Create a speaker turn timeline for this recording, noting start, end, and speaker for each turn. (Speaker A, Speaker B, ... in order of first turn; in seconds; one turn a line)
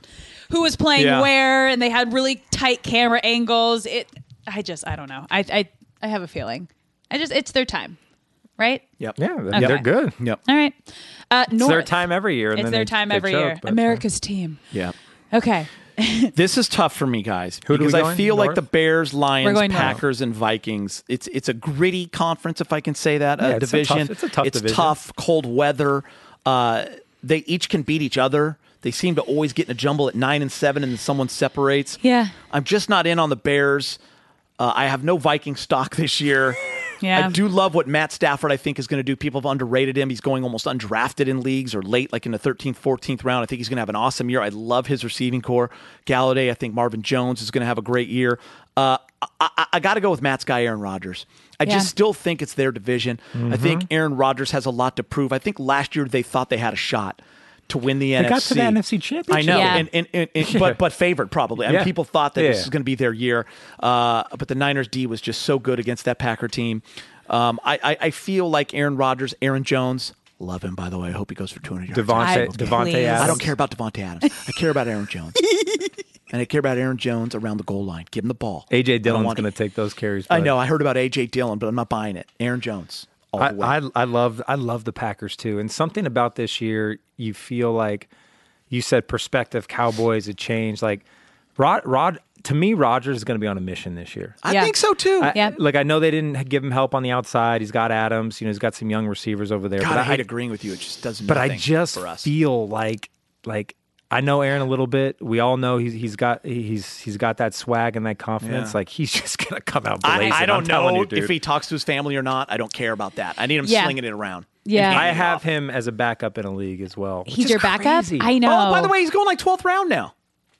Speaker A: 0.5-8.0
Speaker B: 0.9-1.3
Speaker A: 8.6-8.8
Speaker B: 9.0-10.4
Speaker C: 9.2-10.2
Speaker A: 9.5-9.8
Speaker A: 10.4-10.8
Speaker A: 11.3-14.6
Speaker C: 11.6-14.0
Speaker A: 15.3-16.3
Speaker B: 16.3-34.0
Speaker C: 17.6-18.6
Speaker A: 19.4-20.0
Speaker C: 23.4-24.9
Speaker A: 32.0-32.3
Speaker B: 34.6-36.6
Speaker A: 37.0-37.4
Speaker B: 37.1-58.8
Speaker A: 51.6-51.9
Speaker C: 53.3-53.9
Speaker C: 58.2-59.9
Speaker B: 59.3-75.4
Speaker A: 59.5-59.9
Speaker C: 60.4-60.8
Speaker C: 61.6-62.7
Speaker C: 71.9-73.5
Speaker A: 72.2-73.5
Speaker A: 75.4-75.8
Speaker B: 76.3-79.5
Speaker C: 78.7-80.6
Speaker B: 80.3-83.7
Speaker C: 83.4-88.1
Speaker C: 88.7-91.0
Speaker C: 91.6-94.4
Speaker B: 94.4-95.3
Speaker A: 94.5-94.7
Speaker C: 95.2-100.2
Speaker B: 99.8-102.3
Speaker C: 101.2-111.3
Speaker B: 108.4-108.8
Speaker B: 110.0-115.4
Speaker A: 113.6-114.0
Speaker A: 114.6-115.0
Speaker C: 114.7-118.3
Speaker A: 117.3-118.9
Speaker B: 118.4-120.1